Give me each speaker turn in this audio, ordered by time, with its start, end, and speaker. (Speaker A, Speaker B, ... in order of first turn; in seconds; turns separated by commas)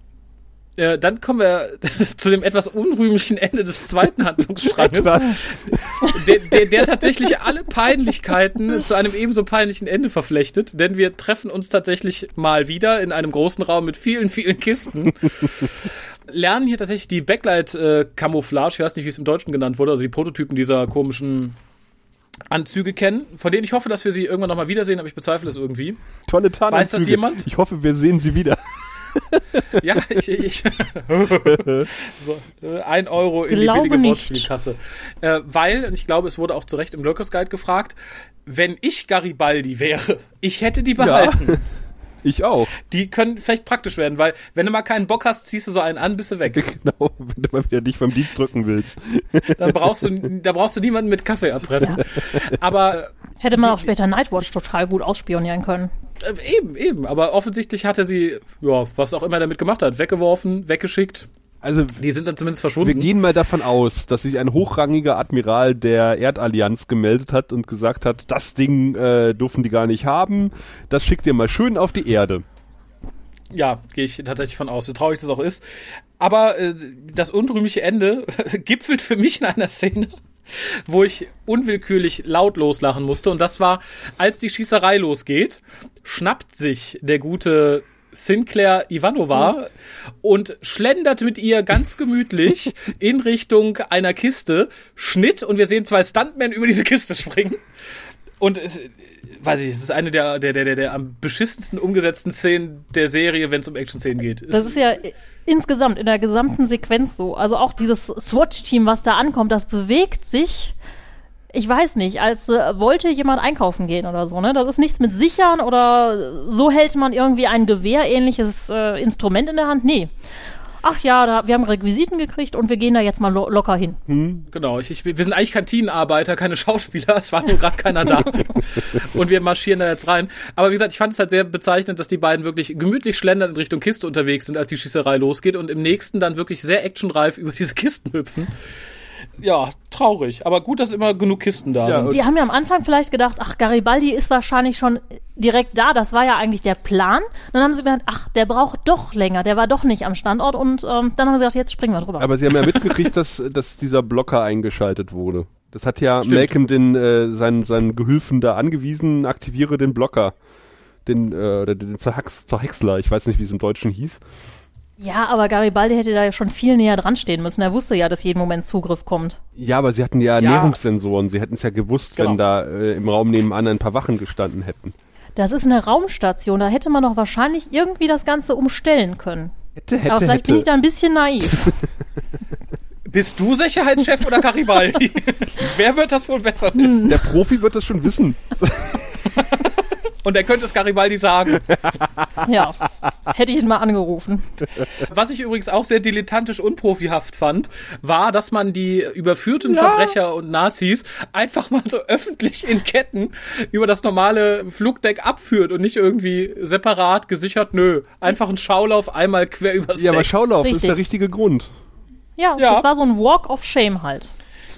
Speaker A: 0.8-21.6, Speaker B: 4.7-6.8, Speaker A: 22.5-26.0, Speaker B: 26.3-30.0, Speaker A: 26.7-27.5, Speaker A: 29.8-41.6, Speaker B: 31.4-31.9, Speaker C: 33.5-34.5, Speaker B: 41.0-41.6, Speaker B: 42.2-42.7, Speaker A: 42.9-46.7, Speaker B: 46.5-50.0, Speaker A: 49.5-53.9, Speaker B: 51.9-52.6, Speaker C: 53.4-55.9, Speaker A: 56.2-61.3, Speaker B: 61.6-62.0, Speaker A: 62.0-63.1, Speaker B: 62.8-72.4, Speaker A: 73.5-75.6, Speaker A: 76.2-89.7, Speaker A: 90.2-97.6, Speaker A: 98.4-104.8, Speaker C: 104.5-110.8, Speaker C: 111.5-120.1, Speaker C: 120.8-124.0, Speaker B: 124.1-124.5, Speaker A: 124.5-138.5, Speaker A: 139.4-142.2, Speaker B: 141.8-142.2, Speaker C: 142.1-152.8, Speaker B: 152.2-160.3, Speaker A: 156.2-156.5, Speaker B: 161.1-164.2, Speaker C: 165.0-169.4, Speaker B: 169.6-174.9, Speaker A: 170.4-170.8, Speaker C: 175.4-179.5, Speaker B: 179.8-180.7, Speaker C: 180.1-181.7, Speaker B: 181.5-181.7, Speaker A: 183.1-187.2, Speaker C: 186.8-187.1, Speaker B: 187.1-189.3, Speaker A: 189.3-191.9, Speaker B: 191.6-192.4, Speaker C: 192.4-194.4, Speaker A: 195.0-210.3, Speaker B: 199.7-200.2, Speaker B: 209.9-211.7, Speaker C: 210.6-211.0, Speaker C: 212.4-214.3, Speaker A: 212.6-212.9